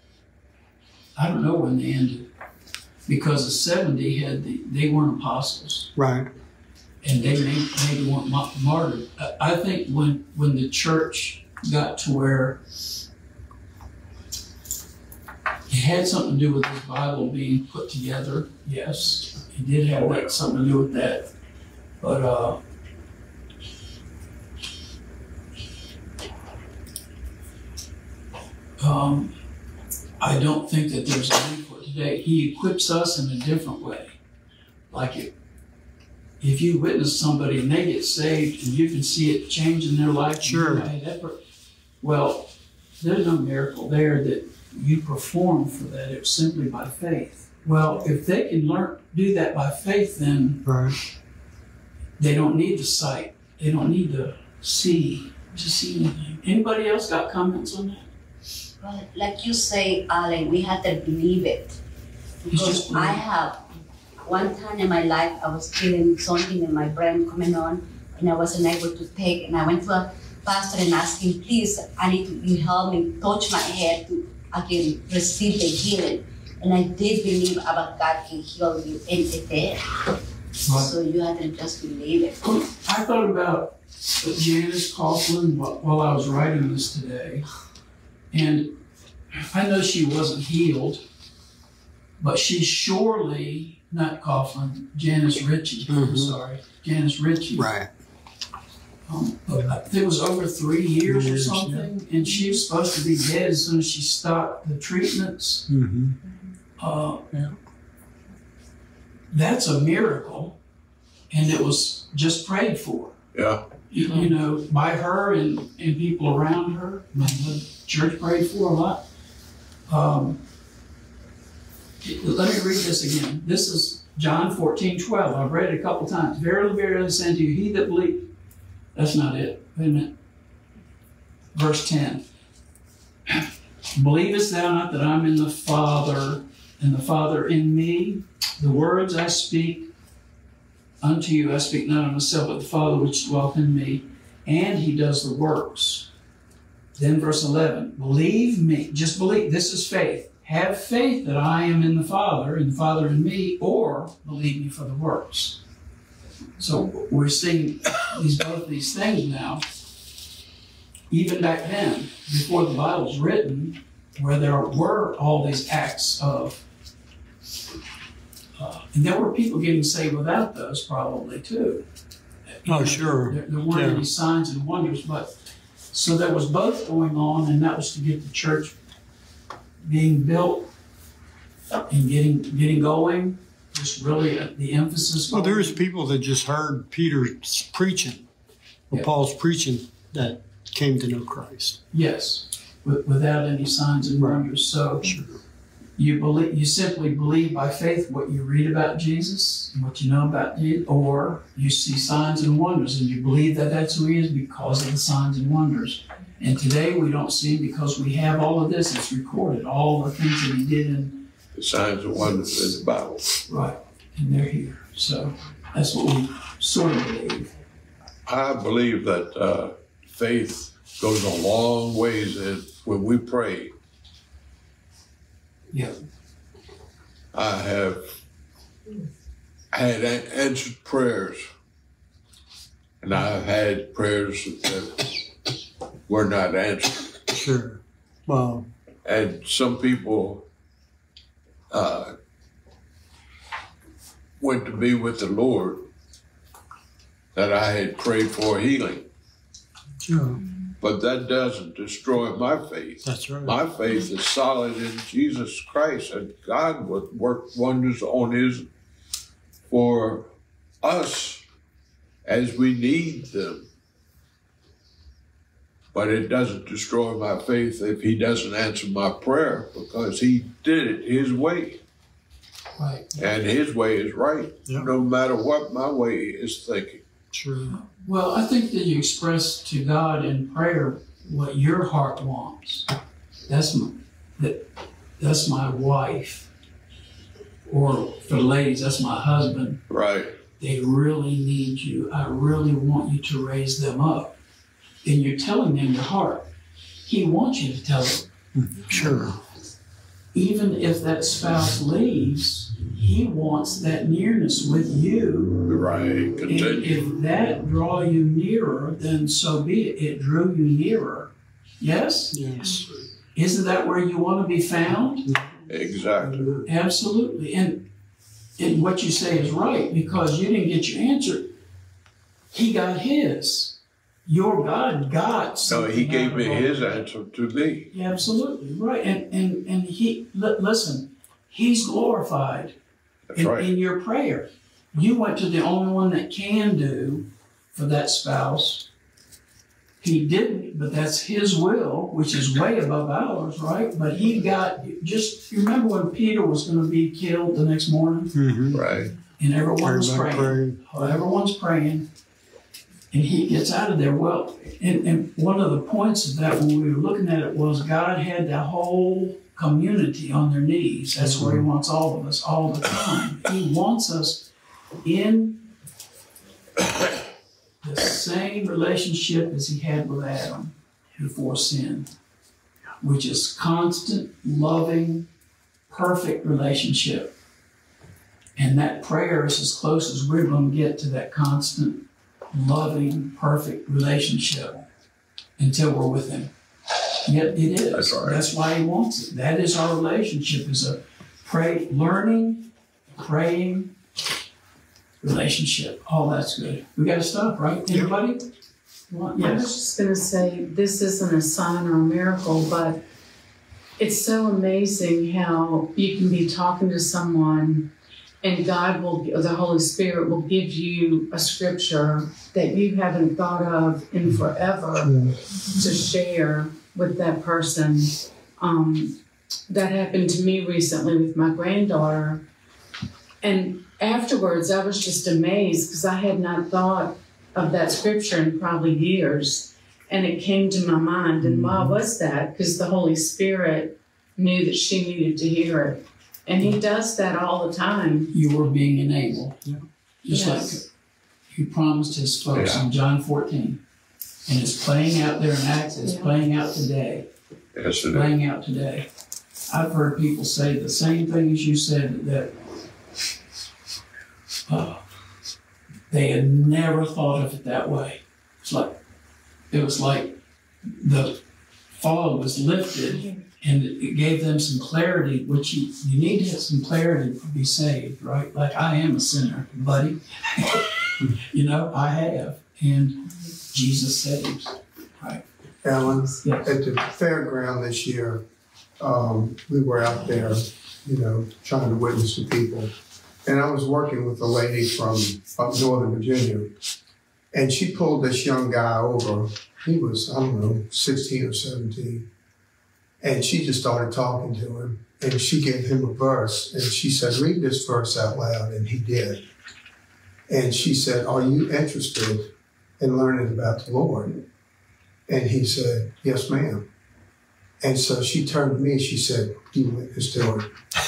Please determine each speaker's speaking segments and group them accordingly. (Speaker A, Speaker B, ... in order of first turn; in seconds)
Speaker A: 1.2-2.3, 3.1-5.9, 7.0-12.6, 15.7-21.3, 22.0-22.6, 28.8-29.4, 30.2-34.2, 34.9-35.3, 36.4-41.4, 42.0-50.6, 52.2-58.1, 62.5-63.2, 80.7-80.9, 82.4-87.5, 88.3-88.8, 89.4-91.0, 92.2-97.7, 99.1-105.7, 106.8-107.3, 109.3-110.6, 111.3-113.2, 113.9-119.0, 119.9-120.4, 122.0-128.3, 128.9-130.1, 131.5-132.2, 133.3-139.9, 141.0-146.1, 147.0-155.6, 156.6-159.6, 161.1-166.6, 168.6-171.8, 172.5-175.3, 175.9-178.8, 179.8-180.7, 181.9-185.8, 191.9-195.1, 196.0-211.2, 213.5-217.5, 272.8-273.4, 277.7-282.9, 283.5-284.7, 285.2-286.5, 287.7-289.8, 290.6-294.4, 295.0-296.5, 297.1-298.3, 300.3-305.6, 306.4-312.4, 313.4-315.3, 316.6-317.9, 318.6-321.5, 322.5-327.1, 327.9-332.8, 333.4-338.9, 340.0-348.4, 349.4-352.1, 353.1-364.5, 365.0-365.6, 367.8-372.1, 373.0-375.3, 375.9-377.3, 378.6-384.9, 385.6-386.5, 387.3-393.9, 395.2-398.4, 399.1-399.7, 438.3-439.6, 440.2-440.9, 441.5-443.8, 444.5-447.3, 448.1-449.1, 449.7-452.5, 454.7-455.0, 456.1-459.0, 459.7-461.4, 461.9-475.4, 476.4-476.7
Speaker B: 6.0-6.3, 40.4-40.9, 50.6-51.0, 95.9-96.4, 97.6-97.9, 101.1-101.9, 105.7-106.2, 107.3-107.6, 172.7-174.0, 185.3-188.2, 188.9-191.8, 194.2-194.4, 195.0-195.4, 237.3-238.7, 250.0-250.4, 253.0-253.6, 277.3-277.8, 298.5-299.4, 312.3-312.9, 315.2-315.6, 348.3-348.8, 349.8-351.2, 361.2-361.6, 431.4-432.0
Speaker C: 20.0-20.3, 113.3-113.6, 211.6-213.3, 218.3-223.7, 227.3-228.1, 229.7-231.5, 233.0-235.1, 236.1-237.1, 239.1-240.4, 241.7-242.2, 244.4-245.9, 247.3-249.1, 250.8-258.7, 259.7-260.3, 260.8-261.4, 262.2-263.7, 265.9-271.8, 273.2-277.0, 289.9-290.4, 305.7-307.1, 315.7-316.5, 325.7-327.9, 333.3-333.7, 348.7-349.1, 387.9-388.4, 442.5-442.8, 447.7-448.3
Speaker D: 58.8-61.8, 62.4-63.7, 64.2-79.8, 80.7-82.4
Speaker E: 316.3-316.6, 415.0-415.3, 475.8-478.4, 479.0-482.9, 483.4-486.7, 487.5-492.3, 493.2-499.4, 500.5-504.4, 505.3-506.9, 507.8-510.7
Speaker F: 399.4-403.0, 404.0-407.9, 408.4-419.2, 419.7-422.4, 423.4-438.3, 440.3-440.8, 446.1-446.3